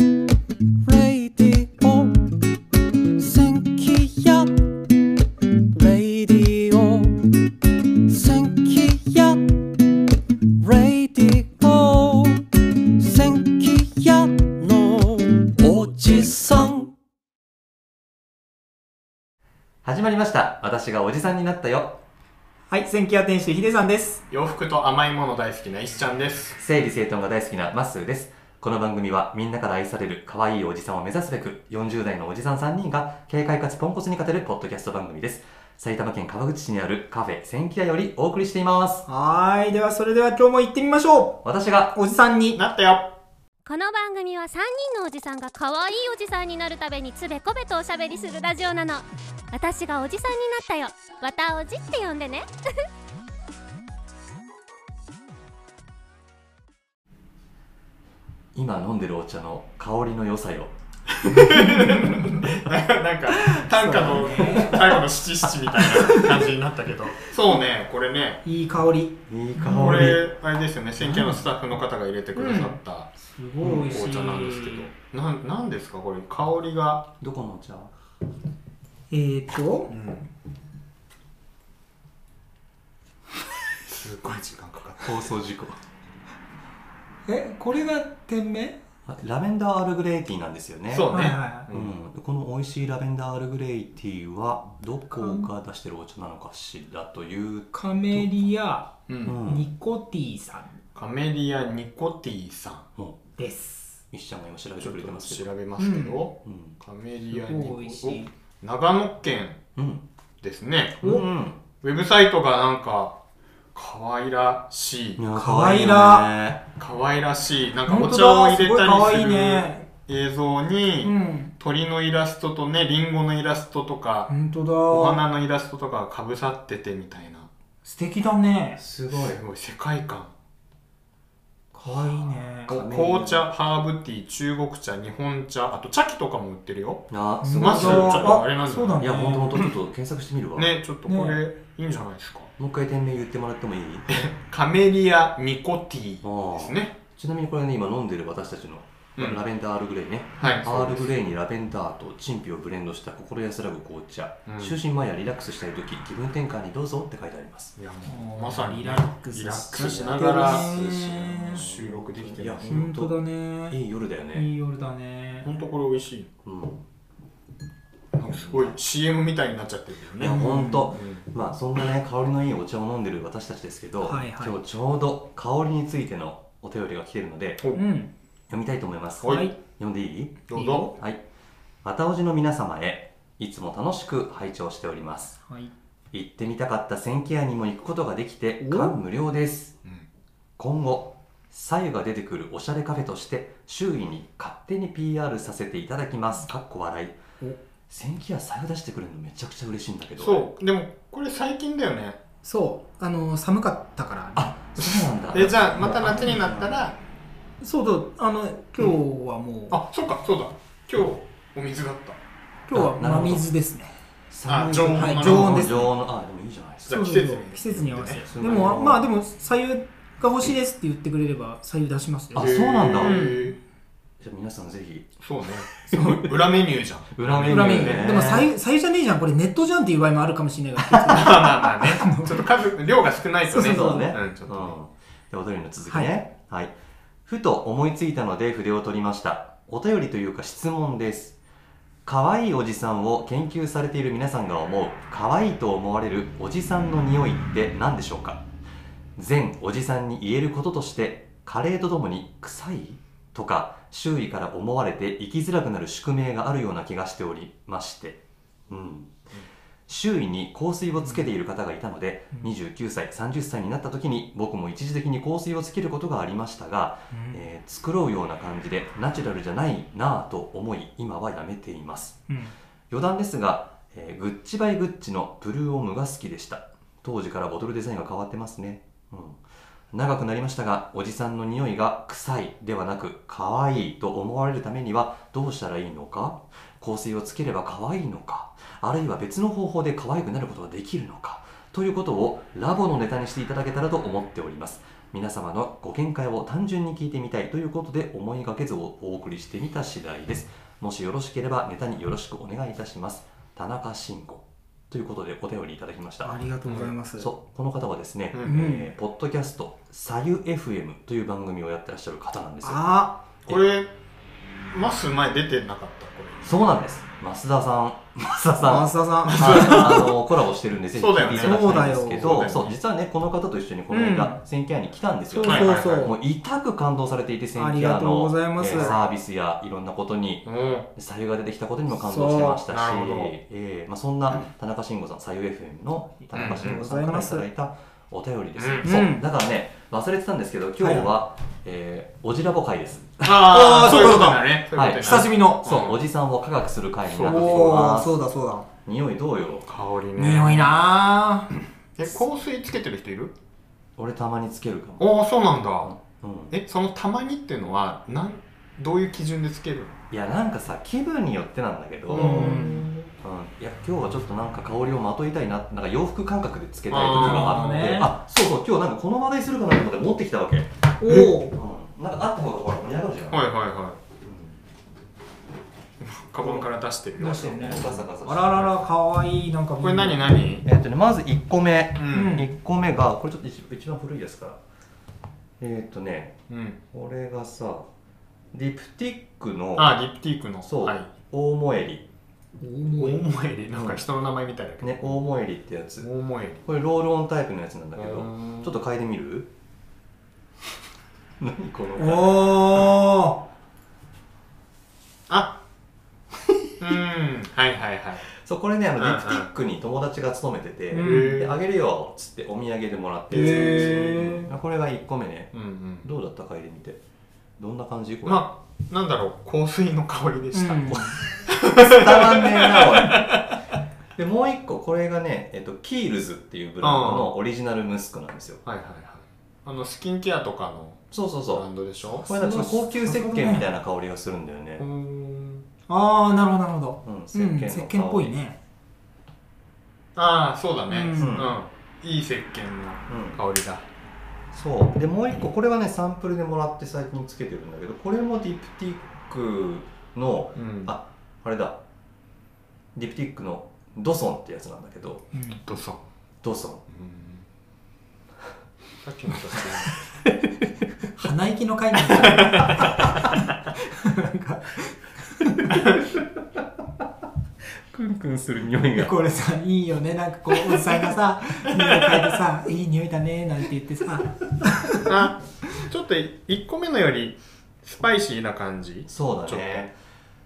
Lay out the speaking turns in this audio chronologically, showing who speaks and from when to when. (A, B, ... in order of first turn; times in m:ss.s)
0:00.9-0:02.1 A
0:03.2-0:04.4 A
0:06.0-0:06.7 A
0:08.3-0:09.1 A
0:10.7-0:12.3 A
0:13.0-0:13.8 A
0:15.4-0:16.9 A
0:19.8-0:22.0 A
0:22.7-0:24.2 B
0:24.3-0:26.6 C
0:26.6-0:39.0 A
0:39.1-0:41.4 B
0:41.4-0:42.0 A
0:41.9-0:42.6 B
0:42.6-0:43.1 C
0:43.7-0:52.5 D
0:58.5-1:00.7 A
1:01.2-1:08.4 C
1:03.4-1:05.0 B
1:08.4-1:10.2 B
1:09.3-1:10.2 A
1:09.8-1:17.0 C
1:11.0-1:11.4 B
1:12.3-1:14.9 B
1:17.2-1:17.9 A
1:19.1-1:19.9 B
1:19.9-1:20.3 C
1:23.9-1:25.2 C
1:25.0-1:25.8 A
1:27.3-1:28.8 B
1:29.1-1:38.5 A
1:30.9-1:32.0 C
1:31.1-1:31.7 B
1:35.2-1:35.5 B
1:37.7-1:40.8 B
1:39.1-1:39.4 C
1:39.2-1:39.7 A
1:41.0-1:42.9 C
1:43.4-1:44.0 B
1:44.1-1:45.5 A
1:44.8-1:49.6 C
1:45.8-1:46.3 B
1:46.4-1:46.8 A
1:47.3-1:48.3 B
1:49.8-1:50.0 A
1:50.4-1:51.0 C
1:51.0-1:51.6 A
1:51.8-1:53.2 C
1:53.8-1:55.2 C
1:55.2-1:56.6 A
1:55.3-1:56.3 B
1:56.8-2:04.3 C
1:57.9-1:59.8 B
2:01.0-2:01.5 B
2:04.3-2:05.2 B
2:04.9-2:07.5 C
2:07.8-2:08.8 B
2:08.8-2:09.4 A
2:09.1-2:10.3 C
2:11.7-2:12.8 B
2:11.8-2:13.5 A
2:12.7-2:17.0 C
2:17.1-2:20.8 A
2:17.4-2:19.7 B
2:17.6-2:19.0 C
2:20.6-2:22.5 C
2:21.1-2:21.4 B
2:22.6-2:24.1 A
2:24.1-2:27.0 C
2:26.2-2:37.8 A
2:29.2-2:29.4 C
2:30.4-2:31.2 C
2:34.5-2:34.8 C
2:37.8-2:42.8 C
2:38.1-2:41.7 B
2:39.8-2:44.5 A
2:42.7-2:43.8 B
2:44.3-2:45.5 B
2:45.4-2:46.3 C
2:46.4-2:46.8 A
2:48.2-2:51.2 C
2:48.2-2:48.8 A
2:50.2-2:57.6 A
2:50.3-2:50.9 B
2:54.0-2:54.6 B
2:57.8-2:58.1 B
2:58.5-3:01.2 A
2:59.2-2:59.5 C
2:59.2-2:59.6 B
3:00.5-3:00.9 C
3:00.5-3:01.0 B
3:01.8-3:05.4 A
3:05.4-3:05.7 B
3:06.1-3:09.8 A
3:08.6-3:09.0 B
3:10.6-3:17.2 A
3:17.9-3:20.5 A
3:20.2-3:22.2 C
3:22.4-3:25.0 B
3:24.4-3:26.8 A
3:25.3-3:27.0 C
3:27.6-3:29.8 B
3:29.7-3:32.2 C
3:32.7-3:33.9 B
3:32.7-3:33.5 A
3:34.3-3:36.9 A
3:34.5-3:35.7 C
3:34.8-3:35.9 B
3:36.8-3:38.8 C
3:36.9-3:43.5 B
3:38.1-3:39.1 A
3:42.3-3:43.4 A
3:42.3-3:43.6 C
3:44.2-3:45.1 A
3:45.2-3:48.4 C
3:45.8-3:46.4 A
3:47.2-3:48.5 A
3:47.4-3:52.4 B
3:50.9-3:54.8 C
3:53.5-3:54.2 B
3:53.5-3:56.7 A
3:55.9-3:56.1 B
3:57.3-4:01.4 A
4:02.1-4:08.4 A
4:09.2-4:19.3 A
4:19.9-4:32.2 A
4:27.1-4:27.4 B
4:32.3-4:32.5 B
4:32.9-5:06.5 A
5:06.2-5:07.3 B
5:06.6-5:06.9 C
5:07.2-5:12.8 A
5:08.3-5:08.6 C
5:08.5-5:08.9 B
5:12.6-5:13.2 B
5:13.5-5:13.9 C
5:14.7-5:16.6 C
5:16.4-5:48.2 A
5:18.6-5:20.2 B
5:19.2-5:20.0 C
5:21.0-5:22.7 C
5:21.3-5:22.5 B
5:23.9-5:24.4 B
5:25.3-5:26.2 B
5:25.4-5:26.1 C
5:27.6-5:29.0 B
5:28.7-5:29.0 C
5:30.4-5:30.9 C
5:31.9-5:32.6 B
5:32.7-5:33.4 C
5:36.2-5:37.5 B
5:36.3-5:36.8 C
5:38.6-5:38.9 C
5:38.8-5:39.3 B
5:40.8-5:41.1 B
5:43.2-5:46.0 C
5:43.5-5:44.4 B
5:45.0-5:45.7 B
5:47.1-5:47.7 C
5:47.2-5:48.7 B
5:48.9-5:49.7 A
5:49.7-5:50.8 C
5:50.2-5:51.6 B
5:52.0-5:53.3 C
5:54.0-5:55.2 A
5:55.0-5:55.9 C
5:55.8-5:56.6 A
5:56.5-5:59.9 C
6:00.1-6:02.7 A
6:02.1-6:03.1 C
6:02.1-6:02.9 B
6:03.2-6:10.7 A
6:06.9-6:07.9 C
6:07.1-6:08.1 B
6:11.0-6:11.6 B
6:11.2-6:13.4 A
6:13.3-6:14.0 C
6:14.2-6:14.6 A
6:16.0-6:17.9 C
6:16.4-6:20.3 B
6:17.4-6:18.9 A
6:19.8-6:20.7 C
6:20.6-6:24.6 A
6:22.0-6:22.4 C
6:22.1-6:22.5 B
6:25.6-6:26.4 A
6:26.5-6:26.8 C
6:26.9-6:27.9 A
6:28.5-6:30.0 A
6:29.8-6:31.1 C
6:30.6-6:32.0 A
6:32.6-6:33.2 B
6:33.0-6:35.2 C
6:33.7-6:34.0 A
6:34.8-6:36.1 A
6:36.0-6:36.6 C
6:36.6-6:39.5 A
6:38.0-6:38.7 C
6:41.4-6:43.0 A
6:42.0-6:43.4 B
6:45.3-6:45.6 C
6:46.8-6:48.3 C
6:48.4-6:57.0 A
6:49.0-6:49.5 C
6:50.9-6:51.4 B
6:51.0-6:51.6 C
6:53.3-6:54.5 C
6:53.3-6:54.4 B
6:55.5-6:56.1 C
6:57.6-6:58.5 A
6:58.2-7:03.4 C
7:00.5-7:01.2 B
7:01.8-7:03.4 A
7:04.2-7:08.6 A
7:06.8-7:07.3 C
7:08.6-7:12.3 C
7:11.1-7:14.8 A
7:12.3-7:13.7 B
7:14.8-7:15.6 C
7:15.9-7:18.6 B
7:17.0-7:18.3 A
7:20.2-7:23.8 C
7:20.9-7:21.4 B
7:21.1-7:21.5 A
7:23.1-7:23.4 A
7:24.5-7:31.8 A
7:30.6-7:31.0 C
7:33.0-7:35.3 A
7:35.3-7:35.6 B
7:35.6-7:36.0 C
7:36.4-7:36.8 A
7:36.9-7:37.4 C
7:39.0-7:40.0 C
7:40.2-7:40.7 A
7:41.2-7:43.4 B
7:42.2-7:42.7 C
7:44.0-7:45.8 B
7:47.9-7:49.2 A
7:48.9-7:55.1 B
7:51.8-7:52.2 C
7:55.1-7:59.8 C
7:59.1-8:00.0 A